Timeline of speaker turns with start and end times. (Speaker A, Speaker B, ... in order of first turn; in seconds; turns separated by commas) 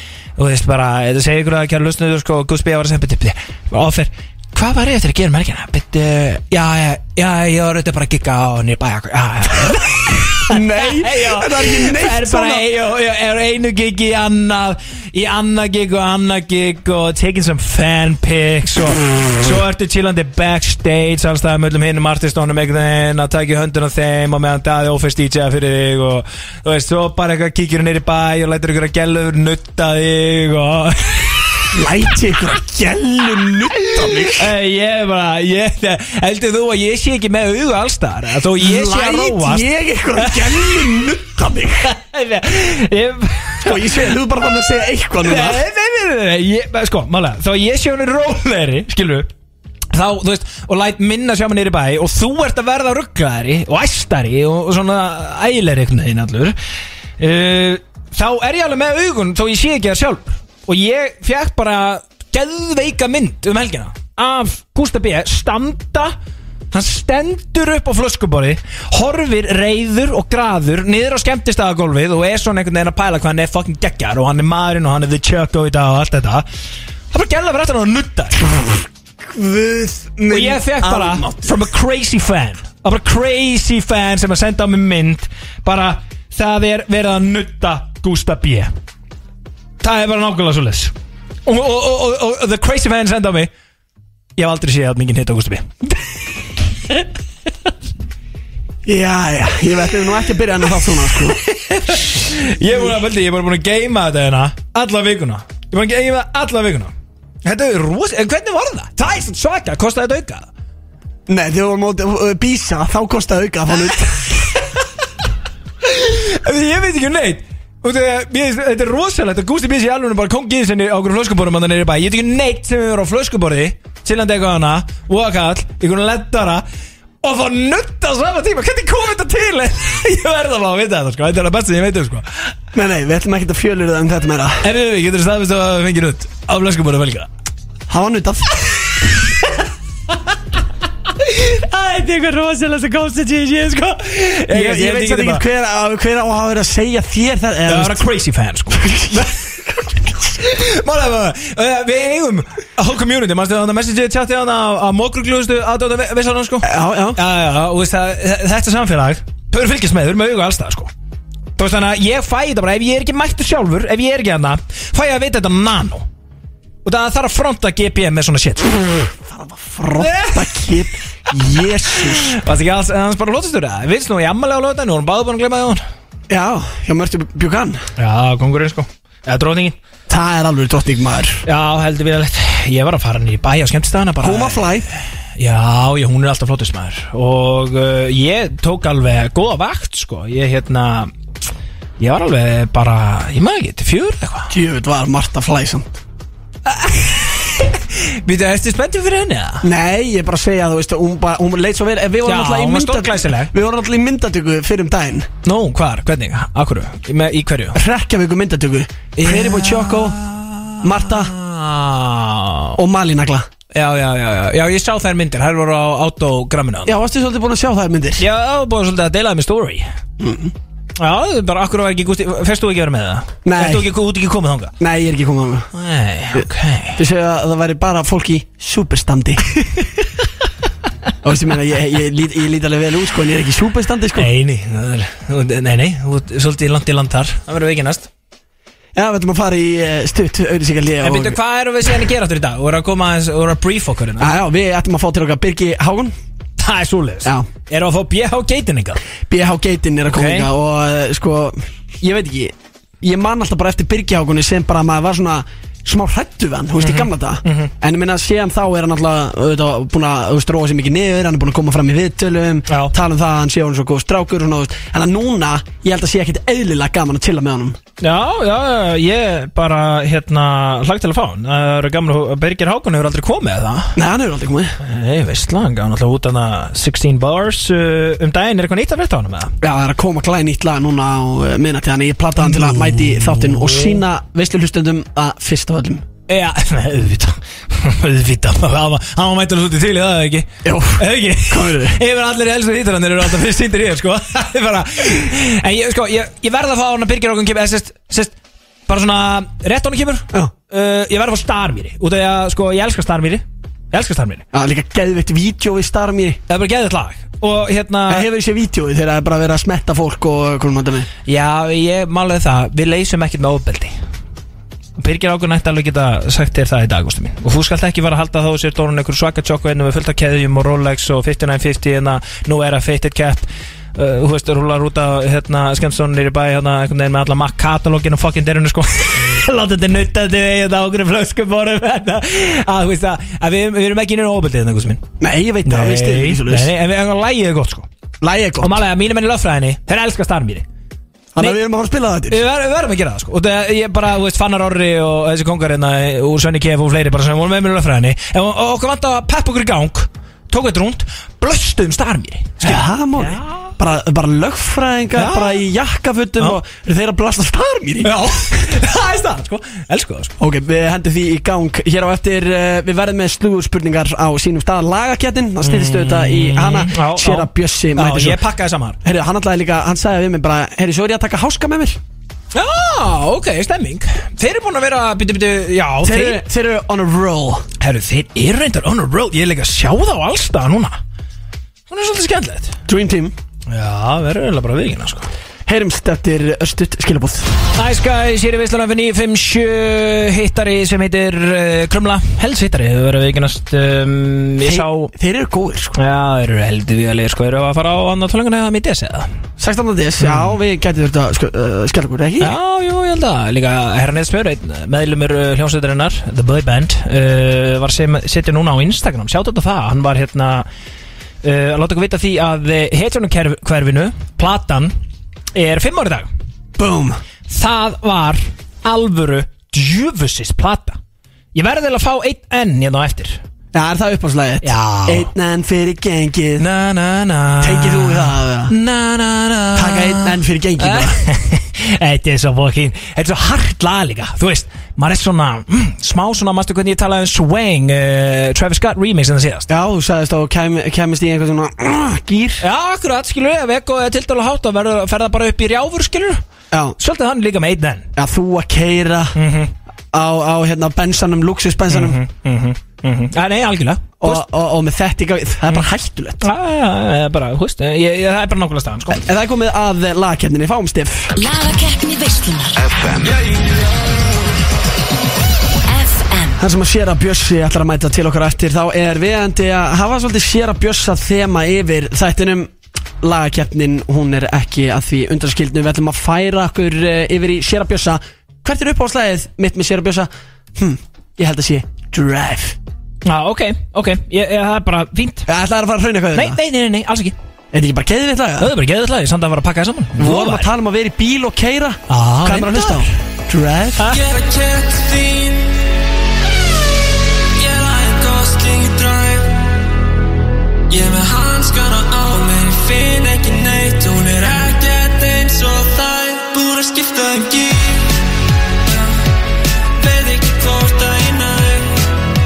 Speaker A: 0.4-31.6, Speaker B: 10.5-12.7, Speaker B: 31.7-34.5, Speaker A: 34.3-41.0, Speaker B: 38.6-41.9, Speaker A: 41.8-44.0, Speaker B: 43.6-45.6, Speaker A: 45.2-49.3, Speaker A: 49.9-56.5, Speaker A: 57.2-66.1, Speaker A: 66.7-76.5, Speaker A: 77.1-78.5, Speaker B: 78.4-81.6, Speaker A: 80.3-88.7, Speaker A: 89.8-90.9, Speaker A: 91.5-93.5, Speaker A: 94.4-95.9, Speaker B: 98.8-101.4, Speaker A: 101.3-106.9, Speaker A: 107.4-110.5, Speaker B: 111.3-114.3, Speaker A: 115.8-126.6, Speaker A: 127.2-132.5, Speaker B: 132.7-134.6, Speaker A: 134.6-137.3, Speaker B: 137.9-138.7, Speaker A: 139.0-139.4, Speaker A: 141.2-145.4, Speaker B: 144.5-148.0, Speaker A: 147.7-149.3, Speaker B: 148.8-149.2, Speaker A: 150.4-160.9, Speaker B: 156.6-157.2, Speaker A: 161.6-166.0, Speaker A: 166.8-168.8, Speaker B: 169.0-172.3, Speaker A: 170.0-170.7, Speaker A: 171.5-175.8, Speaker B: 176.3-177.9, Speaker A: 178.0-179.8, Speaker B: 180.1-181.4, Speaker A: 181.4-184.7, Speaker B: 184.2-184.9, Speaker A: 185.4-191.1, Speaker A: 192.0-194.5, Speaker B: 194.5-195.9, Speaker A: 196.7-199.7, Speaker B: 199.6-205.3, Speaker A: 202.2-203.5, Speaker A: 205.4-207.8, Speaker B: 207.7-210.2, Speaker A: 209.2-212.8, Speaker B: 210.8-211.3, Speaker B: 212.8-213.5, Speaker A: 213.7-216.9, Speaker B: 216.8-218.2, Speaker A: 218.2-219.9, Speaker B: 220.2-220.5, Speaker A: 221.0-224.7, Speaker B: 223.4-223.9, Speaker B: 224.8-225.7, Speaker A: 225.7-227.0, Speaker B: 227.0-229.4, Speaker B: 231.2-234.3, Speaker A: 234.2-238.1, Speaker B: 238.9-241.4, Speaker A: 241.0-244.3, Speaker B: 244.2-246.1, Speaker A: 246.6-249.0, Speaker B: 249.3-267.8, Speaker A: 250.1-250.5, Speaker A: 256.8-257.7, Speaker A: 268.0-274.0, Speaker B: 273.9-274.8, Speaker A: 274.8-279.5, Speaker B: 279.6-286.0, Speaker A: 282.4-284.0, Speaker A: 286.3-298.3, Speaker B: 290.6-292.0, Speaker A: 298.9-304.4, Speaker B: 304.5-306.4, Speaker A: 306.5-308.3, Speaker B: 308.1-311.1, Speaker A: 311.3-313.9, Speaker A: 315.0-335.0, Speaker B: 335.2-336.7, Speaker A: 335.6-337.9, Speaker B: 338.2-338.8, Speaker A: 338.6-340.6, Speaker B: 341.3-342.4, Speaker A: 342.3-353.7, Speaker B: 352.6-358.1, Speaker A: 355.1-355.6, Speaker A: 358.0-360.3, Speaker B: 360.4-368.4, Speaker A: 365.6-369.0, Speaker B: 369.0-372.0, Speaker A: 372.5-376.4, Speaker B: 376.0-377.6, Speaker A: 377.8-381.0, Speaker A: 381.9-382.8, Speaker B: 382.9-383.3, Speaker A: 383.7-385.3, Speaker B: 385.6-387.5, Speaker A: 387.8-395.1, Speaker B: 394.6-396.0, Speaker A: 395.9-399.3, Speaker B: 399.6-402.5, Speaker A: 400.2-400.6, Speaker A: 402.4-410.7, Speaker A: 411.4-414.9, Speaker A: 415.5-416.3, Speaker B: 416.8-417.2, Speaker A: 417.5-421.0, Speaker A: 421.5-423.4, Speaker B: 423.7-426.6, Speaker A: 424.6-425.3, Speaker A: 426.6-439.7, Speaker B: 427.6-428.7, Speaker B: 429.7-431.2, Speaker B: 439.7-442.6, Speaker A: 442.6-446.4, Speaker A: 447.0-448.1, Speaker B: 448.1-449.4, Speaker A: 449.3-449.7, Speaker B: 450.1-452.2, Speaker A: 451.9-454.4, Speaker B: 454.2-456.5, Speaker A: 456.4-459.2, Speaker B: 459.1-461.3, Speaker C: 461.3-463.2, Speaker D: 463.2-463.7, Speaker C: 465.9-466.6, Speaker B: 466.6-482.8, Speaker A: 483.2-485.5, Speaker B: 485.5-486.6, Speaker A: 486.3-487.3, Speaker B: 487.7-488.7, Speaker A: 488.6-490.7, Speaker B: 490.2-494.2, Speaker A: 492.1-493.1, Speaker D: 494.1-495.8, Speaker D: 497.6-499.6, Speaker D: 500.9-508.1, Speaker D: 509.9-512.0